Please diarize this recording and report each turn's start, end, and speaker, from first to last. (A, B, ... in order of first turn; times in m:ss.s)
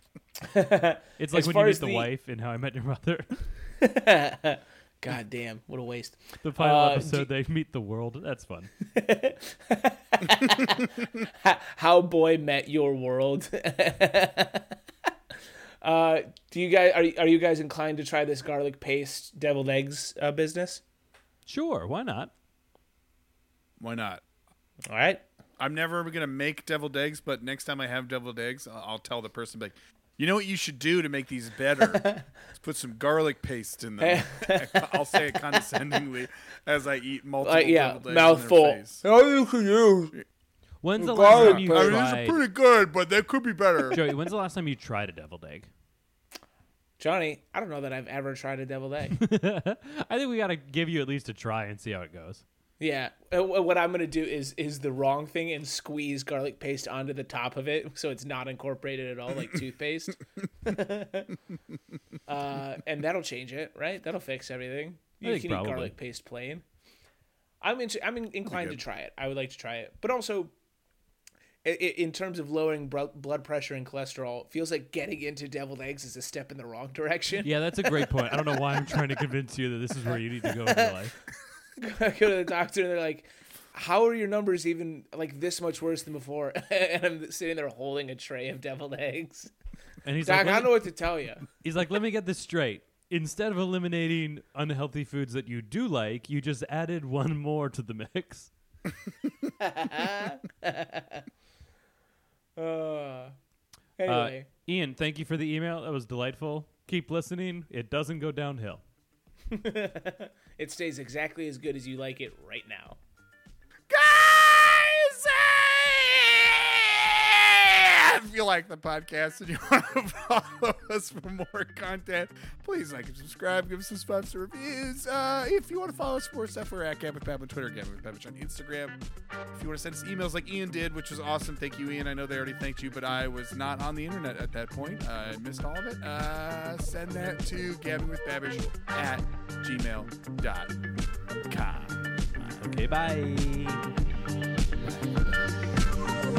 0:00.4-0:02.1 A
0:01.2-0:03.5 B
0:03.8-0:07.3 A
0:06.4-0:08.7 B
0:08.9-0:14.8 A
0:15.8-0:20.8 A
0:21.4-0:22.3 B
0:23.8-0:24.2 C
0:24.9-0:25.2 A
0:25.6-0:39.0 C
0:31.9-0:32.2 A
0:34.0-0:35.6 A
0:37.4-0:40.1 A
0:40.8-0:42.4 B
0:41.0-0:42.0 A
0:41.2-0:44.0 C
0:43.9-0:45.7 B
0:47.0-0:49.2 A
0:49.2-0:52.4 B
0:52.8-1:01.4 A
1:02.3-1:06.6 A
1:05.2-1:05.9 B
1:07.6-1:10.5 A
1:08.5-1:08.8 C
1:11.6-1:19.0 A
1:17.4-1:21.1 B
1:20.6-1:20.9 A
1:21.8-1:29.5 A
1:30.0-1:30.9 B
1:30.2-1:31.4 A
1:31.5-1:38.5 B
1:39.6-1:41.2 A
1:42.6-1:43.4 A
1:44.0-1:44.5 A
1:44.1-1:48.8 B
1:49.5-1:53.0 A
1:53.9-2:09.0 C
2:09.5-2:20.7 C
2:21.5-2:22.6 C
2:22.6-2:23.8 B
2:24.9-2:25.4 B